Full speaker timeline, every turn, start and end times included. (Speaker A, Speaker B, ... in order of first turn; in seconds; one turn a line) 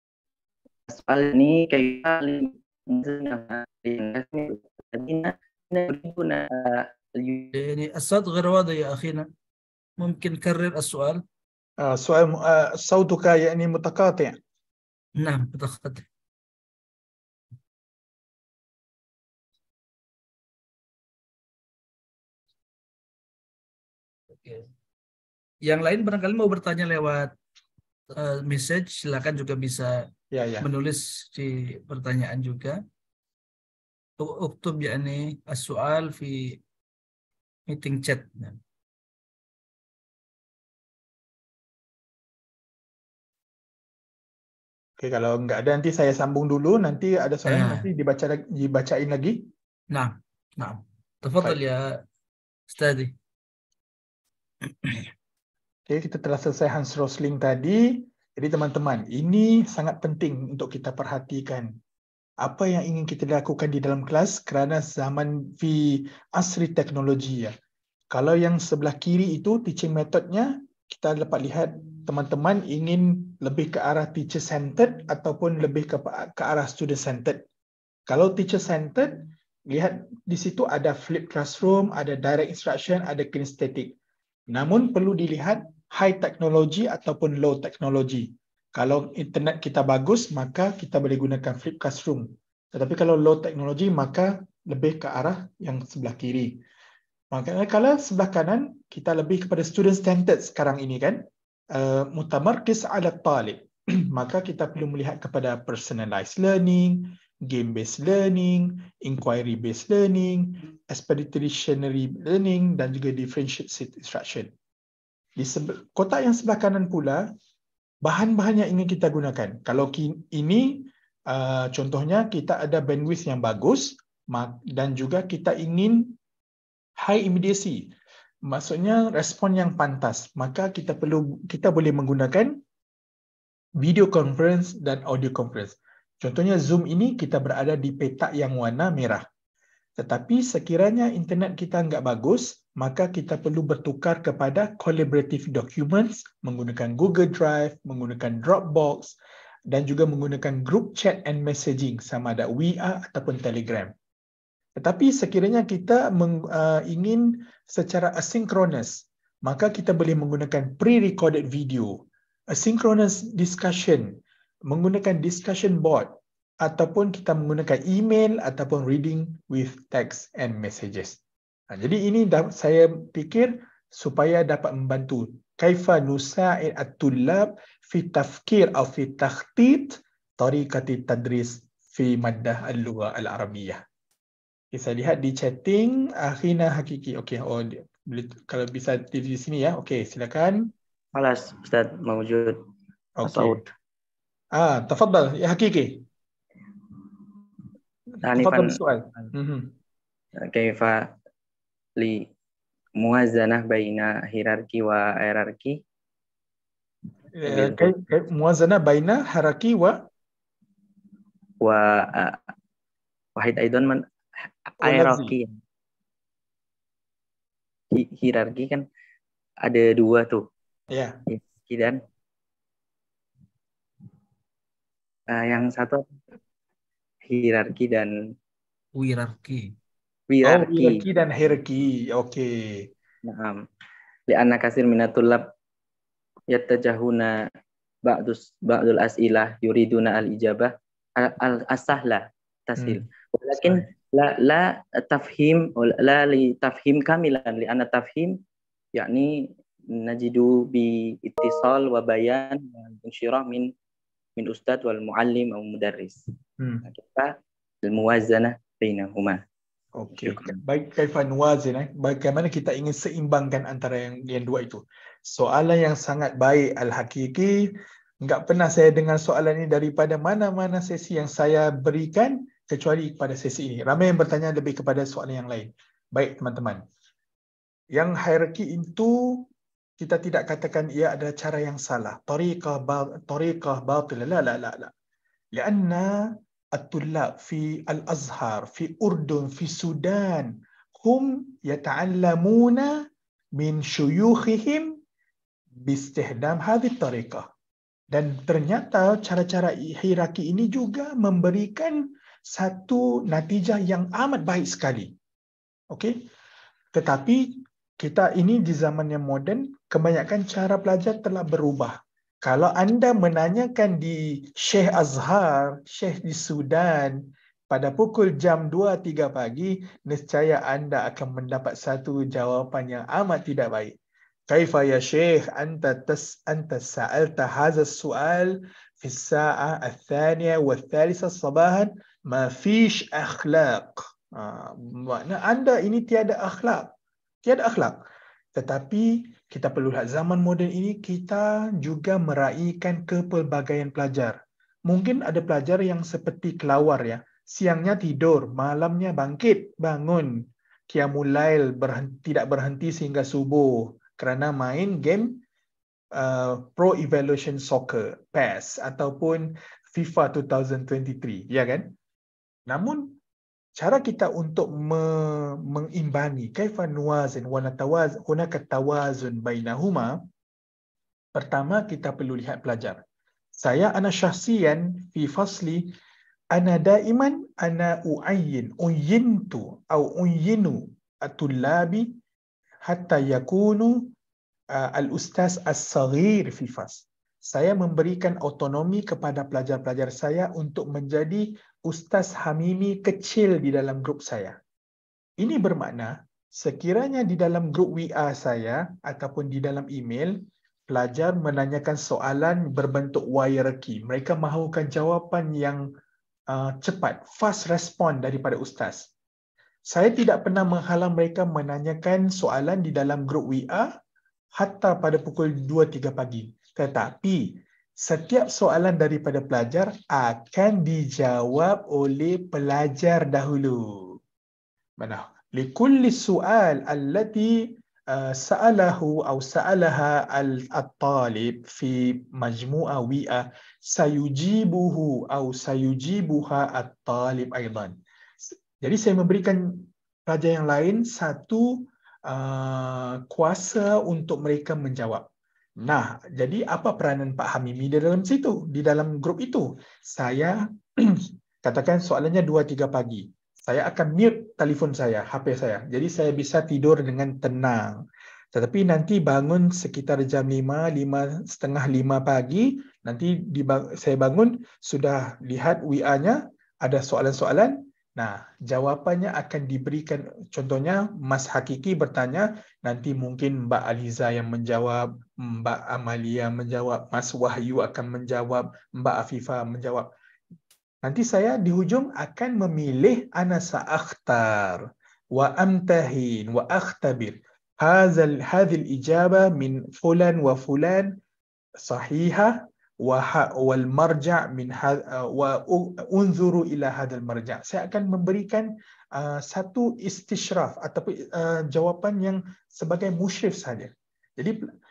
Speaker A: 0.9-7.5
Speaker B: 7.5-9.3
Speaker B: 10.0-11.2
Speaker C: 11.8-14.4
Speaker B: 15.2-16.1
Speaker B: 24.4-24.7
Speaker B: 25.7-27.3
Speaker B: 28.1-30.0
Speaker C: 30.3-30.7
Speaker B: 30.6-32.8
Speaker B: 34.2-36.6
Speaker B: 37.7-38.6
Speaker C: 45.0-49.4
Speaker B: 47.5-47.9
Speaker B: 49.9-51.9
Speaker B: 52.7-53.1
Speaker C: 55.9-61.7
Speaker C: 62.4-67.5
Speaker C: 68.1-77.4
Speaker C: 78.1-84.0
Speaker C: 84.5-96.6
Speaker C: 97.3-101.2
Speaker C: 101.7-114.5
Speaker C: 115.4-117.2
Speaker C: 118.0-126.1
Speaker C: 127.0-127.9
Speaker C: 128.5-132.6
Speaker C: 133.8-139.2
Speaker C: 140.0-149.2
Speaker C: 149.7-153.9
Speaker C: 154.8-162.0
Speaker C: 162.5-164.1
Speaker C: 164.7-171.2
Speaker C: 171.7-183.8
Speaker C: 184.7-190.7
Speaker A: 191.1-192.6
Speaker C: 193.2-193.6
Speaker A: 193.2-193.7
Speaker C: 194.6-196.0
Speaker A: 198.2-199.3
Speaker C: 198.4-199.7
Speaker A: 200.4-201.1
Speaker A: 202.0-202.3
Speaker A: 203.0-205.8
Speaker C: 207.4-210.0
Speaker A: 207.4-208.0
Speaker A: 211.6-212.4
Speaker A: 213.4-214.0
Speaker A: 214.8-215.6
Speaker C: 214.8-215.3
Speaker A: 217.9-218.8
Speaker A: 219.7-220.4
Speaker C: 220.9-221.2
Speaker A: 221.3-222.0
Speaker A: 225.3-226.1
Speaker A: 227.3-228.1
Speaker B: 228.9-229.7
Speaker A: 230.3-231.0
Speaker C: 230.4-232.5
Speaker A: 233.2-233.6
Speaker A: 234.3-235.4
Speaker A: 236.5-237.4
Speaker A: 238.1-248.4
Speaker C: 243.6-243.9
Speaker A: 248.9-249.3
Speaker A: 249.9-253.7
Speaker A: 254.4-256.2
Speaker A: 256.9-257.3
Speaker A: 257.8-259.4
Speaker C: 260.0-267.5
Speaker A: 260.2-260.6
Speaker C: 268.2-276.8
Speaker C: 277.9-279.1
Speaker C: 280.0-284.9
Speaker C: 285.5-286.1
Speaker C: 286.8-292.9
Speaker C: 293.6-294.9
Speaker C: 295.8-297.4
Speaker C: 298.1-305.1
Speaker C: 306.9-317.1
Speaker C: 317.7-323.9
Speaker C: 324.5-336.9
Speaker C: 337.4-338.0
Speaker C: 338.6-344.4
Speaker C: 344.9-350.3
Speaker C: 350.9-355.4
Speaker C: 356.2-361.9
Speaker C: 362.7-363.1
Speaker C: 363.8-370.1
Speaker C: 371.4-373.0
Speaker C: 373.6-375.9
Speaker C: 376.5-382.1
Speaker C: 382.9-384.1
Speaker C: 384.7-394.6
Speaker C: 395.4-400.3
Speaker C: 400.9-405.8
Speaker C: 406.5-409.1
Speaker C: 409.9-413.9
Speaker C: 414.6-424.1
Speaker C: 425.0-427.5
Speaker C: 428.1-437.9
Speaker C: 438.8-445.2
Speaker C: 445.8-457.9
Speaker C: 458.5-480.1
Speaker C: 481.0-484.8
Speaker C: 485.4-491.1
Speaker C: 491.8-504.6